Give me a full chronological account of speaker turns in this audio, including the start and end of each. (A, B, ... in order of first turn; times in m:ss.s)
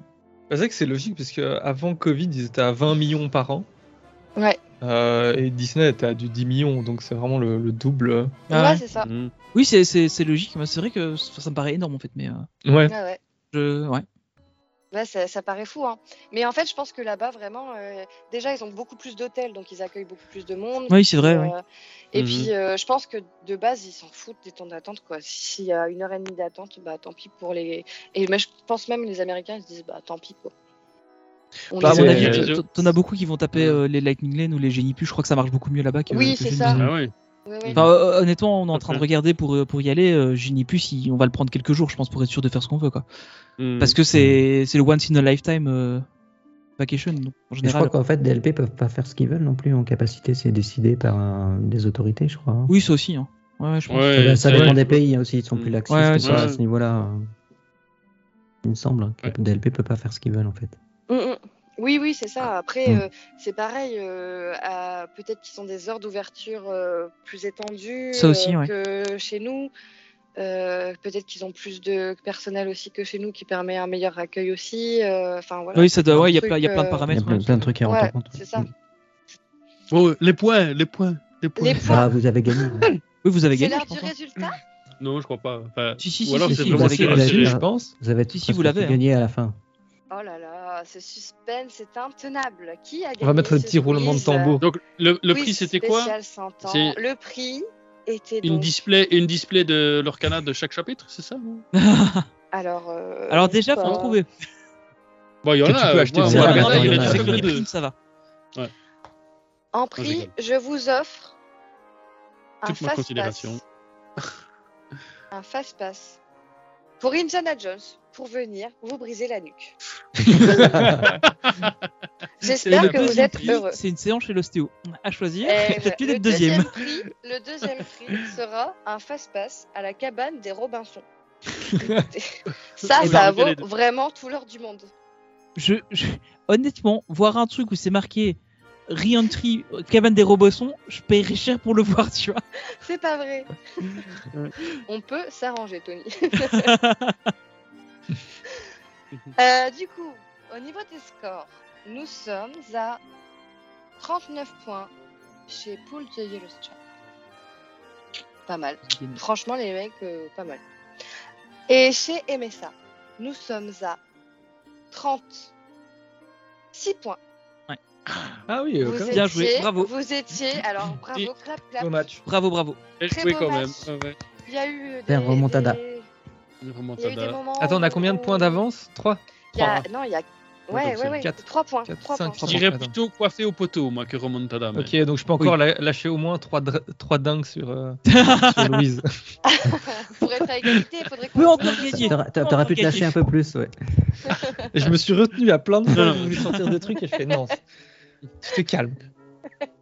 0:00.5-0:03.7 A
0:04.8-0:08.5 A
0:08.5-0:09.1 B
0:08.5-0:08.8 C
0:09.0-0:09.3 D
0:09.5-0:12.5 C
0:12.6-0:12.9 A
0:12.9-0:13.2 B
0:13.5-0:14.0 C
0:14.9-0:30.5 B
0:20.9-0:21.5 C
0:22.1-0:22.5 D
0:31.7-0:32.5 B
0:31.8-0:32.5 A
0:31.8-0:36.8 C
0:32.1-0:32.6 D
0:33.5-0:33.8 D
0:36.1-0:36.8 B
0:36.7-0:37.1 D
0:37.4-0:37.9 B
0:37.8-0:43.0 C
0:38.7-0:39.0 D
0:43.6-0:44.0 D
0:43.8-0:46.0 C
0:44.1-0:44.4 E
0:46.8-0:47.9 C
0:47.6-0:52.7 E
0:52.7-0:54.1 C
0:53.9-0:55.0 D
0:54.2-0:57.3 E
0:55.5-0:56.6 D
0:55.9-0:56.5 C
0:58.6-1:00.8 E
1:01.1-1:09.7 B
1:08.1-1:08.7 C
1:10.4-1:17.1 B
1:15.7-1:17.7 C
1:17.1-1:18.7 E
1:17.8-1:18.7 B
1:19.9-1:22.0 D
1:21.6-1:22.1 B
1:21.8-1:22.9 E
1:23.2-1:24.1 C
1:23.5-1:24.6 B
1:25.0-1:27.5 D
1:26.0-1:27.4 C
1:26.5-1:29.6 E
1:26.8-1:27.9 A
1:28.3-1:29.0 C
1:30.1-1:34.6 B
1:33.2-1:34.6 A
1:34.6-1:37.0 D
1:35.3-1:38.8 B
1:38.4-1:41.6 D
1:41.7-1:42.3 C
1:42.5-1:44.2 B
1:43.3-1:44.3 C
1:45.4-1:47.6 D
1:45.6-1:47.4 A
1:46.2-1:47.4 E
1:46.3-1:47.9 C
1:49.7-1:51.3 B
1:50.0-1:50.3 D
1:52.6-1:53.6 B
1:52.6-1:53.6 D
1:55.3-1:56.2 B
1:57.0-1:59.8 B
2:00.3-2:01.1 A
2:00.3-2:00.9 B
2:00.8-2:01.1 E
2:02.4-2:03.8 B
2:02.5-2:03.6 D
2:02.6-2:06.7 C
2:05.4-2:11.0 B
2:11.6-2:12.1 A
2:11.8-2:14.9 B
2:12.8-2:13.6 D
2:15.6-2:22.4 C
2:22.8-2:24.0 B
2:24.9-2:26.7 B
2:26.5-2:27.2 C
2:29.4-2:33.0 B
2:34.0-2:34.9 B
2:35.5-2:36.8 B
2:38.5-2:40.6 B
2:38.8-2:39.2 C
2:41.7-2:44.0 B
2:44.9-2:45.5 B
2:46.7-2:47.2 B
2:48.5-2:49.3 A
2:48.8-2:52.0 B
2:49.1-2:49.9 C
2:51.8-2:52.2 A
2:52.2-2:52.8 C
2:53.0-2:54.2 D
2:53.1-2:53.9 B
2:54.4-2:56.1 B
2:55.1-2:55.8 E
2:56.6-2:57.4 D
2:57.0-2:58.6 B
2:57.6-2:59.2 A
2:59.5-2:59.8 C
2:59.5-3:02.5 B
2:59.6-2:59.8 D
3:00.7-3:02.9 A
3:02.4-3:04.9 D
3:04.7-3:09.0 A
3:08.1-3:08.8 C
3:09.5-3:12.2 B
3:11.4-3:13.2 C
3:11.8-3:14.3 E
3:14.2-3:14.6 B
3:14.7-3:17.6 A
3:15.9-3:16.4 D
3:18.4-3:19.0 A